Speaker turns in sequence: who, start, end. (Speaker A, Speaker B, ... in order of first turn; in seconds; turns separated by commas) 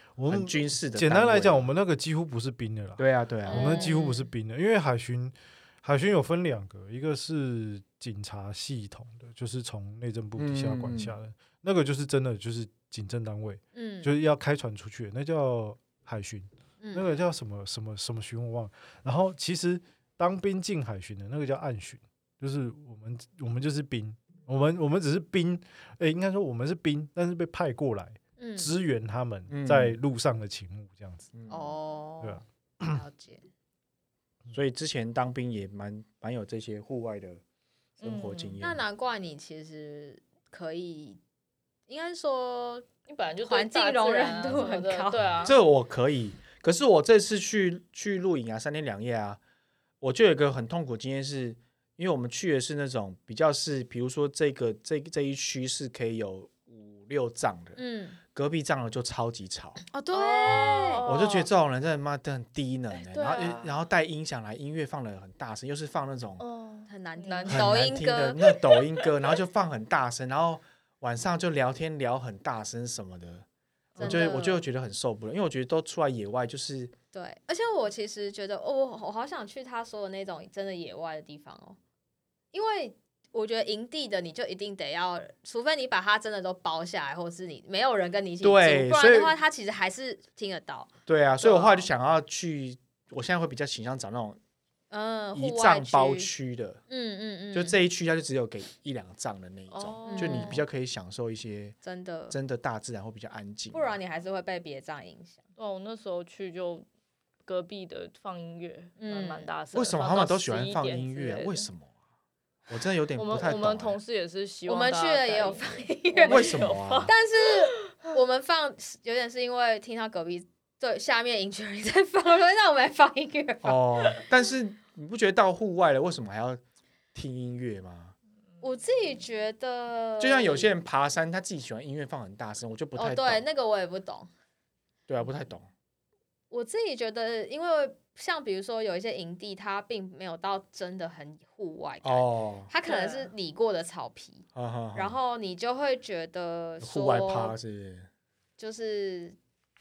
Speaker A: 0.2-31.3, Speaker B: 0.3-1.7, Speaker B: 3.0-3.9, Speaker C: 3.5-4.3, Speaker B: 10.4-11.2, Speaker C: 13.7-14.1, Speaker C: 16.8-17.1, Speaker C: 28.4-28.7, Speaker B: 29.5-30.0, Speaker B: 31.3-31.7, Speaker C: 31.5-33.4, Speaker A: 32.2-33.0, Speaker B: 34.5-37.4, Speaker B: 38.0-38.8, Speaker D: 38.0-38.6, Speaker C: 38.6-41.2, Speaker C: 41.9-42.9, Speaker D: 43.1-45.5, Speaker C: 43.4-45.2, Speaker B: 45.4-49.4, Speaker B: 50.0-57.8, Speaker C: 57.8-58.2, Speaker B: 58.3-59.8, Speaker C: 59.9-61.0, Speaker D: 60.1-61.5, Speaker B: 60.5-66.4, Speaker D: 62.9-63.8, Speaker D: 66.4-67.8, Speaker C: 66.9-68.4, Speaker B: 67.5-73.5, Speaker D: 73.9-74.5, Speaker C: 74.0-74.6, Speaker B: 74.0-76.9, Speaker C: 77.1-81.8, Speaker C: 82.5-91.9, Speaker B: 88.4-89.3, Speaker B: 91.1-94.4, Speaker C: 94.9-96.3, Speaker B: 95.3-96.8, Speaker C: 96.9-97.8, Speaker B: 97.5-101.8, Speaker D: 99.7-100.6, Speaker C: 100.1-100.6, Speaker C: 101.8-102.3, Speaker B: 102.3-104.0, Speaker C: 103.7-105.4, Speaker D: 105.6-106.8, Speaker D: 107.4-111.7, Speaker C: 109.0-109.5, Speaker B: 109.7-111.9, Speaker B: 112.7-114.0, Speaker D: 113.1-117.2, Speaker C: 114.7-124.2, Speaker B: 116.3-117.1, Speaker B: 123.6-126.6, Speaker B: 127.1-128.1, Speaker C: 128.6-130.7, Speaker B: 130.2-133.4, Speaker C: 132.9-134.3, Speaker B: 135.1-135.7, Speaker C: 136.5-147.6, Speaker B: 142.0-142.7, Speaker D: 142.8-143.3, Speaker B: 144.5-145.2, Speaker B: 146.8-148.1, Speaker C: 148.6-149.4